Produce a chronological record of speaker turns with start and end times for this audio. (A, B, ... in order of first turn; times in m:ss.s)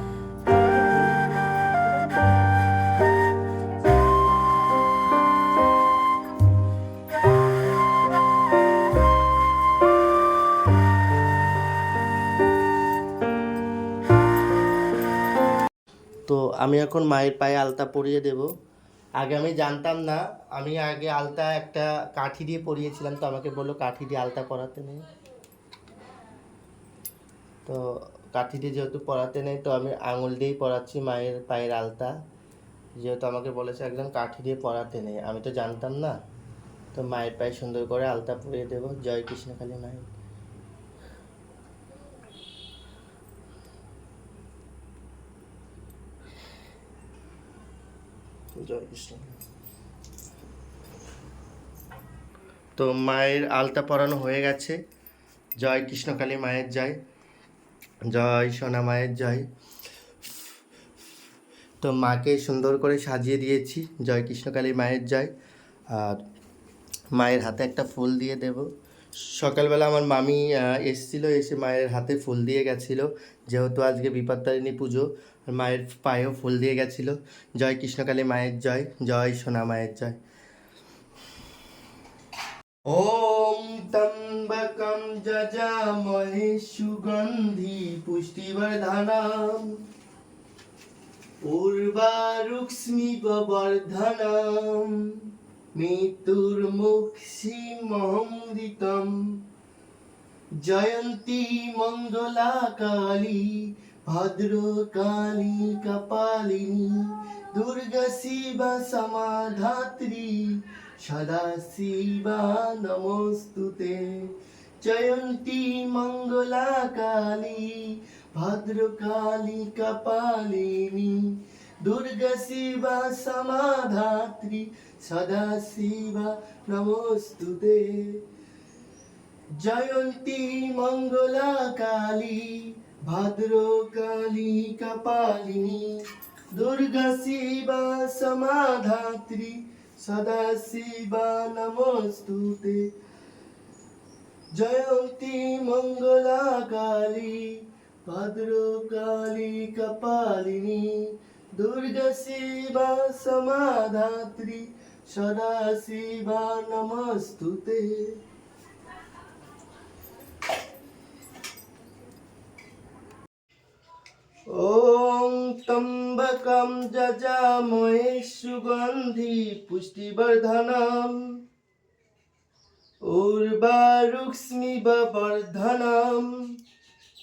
0:16.3-0:18.5 A
0:19.2-0:25.1 A
0:27.7-0:32.2 A
0:33.0-0:36.2 A
0:36.9-0:40.1 A
0:48.6-0:49.4 A
0:52.8-0:54.8 A
0:55.6-0:57.0 A
0:58.1-0:59.4 A
1:01.8-1:05.3 A
1:05.9-1:06.2 A
1:07.2-1:08.7 A
1:09.3-1:20.2 A
1:22.9-1:29.8 A
1:31.5-1:35.0 A
1:35.8-1:39.2 A
1:40.6-1:54.3 A
1:54.8-2:01.3 A
2:01.8-2:08.2 A
2:09.6-2:16.0 A
2:16.5-2:22.9 A
2:24.5-2:38.2 A
2:44.5-2:51.2 A
2:53.1-2:56.3 A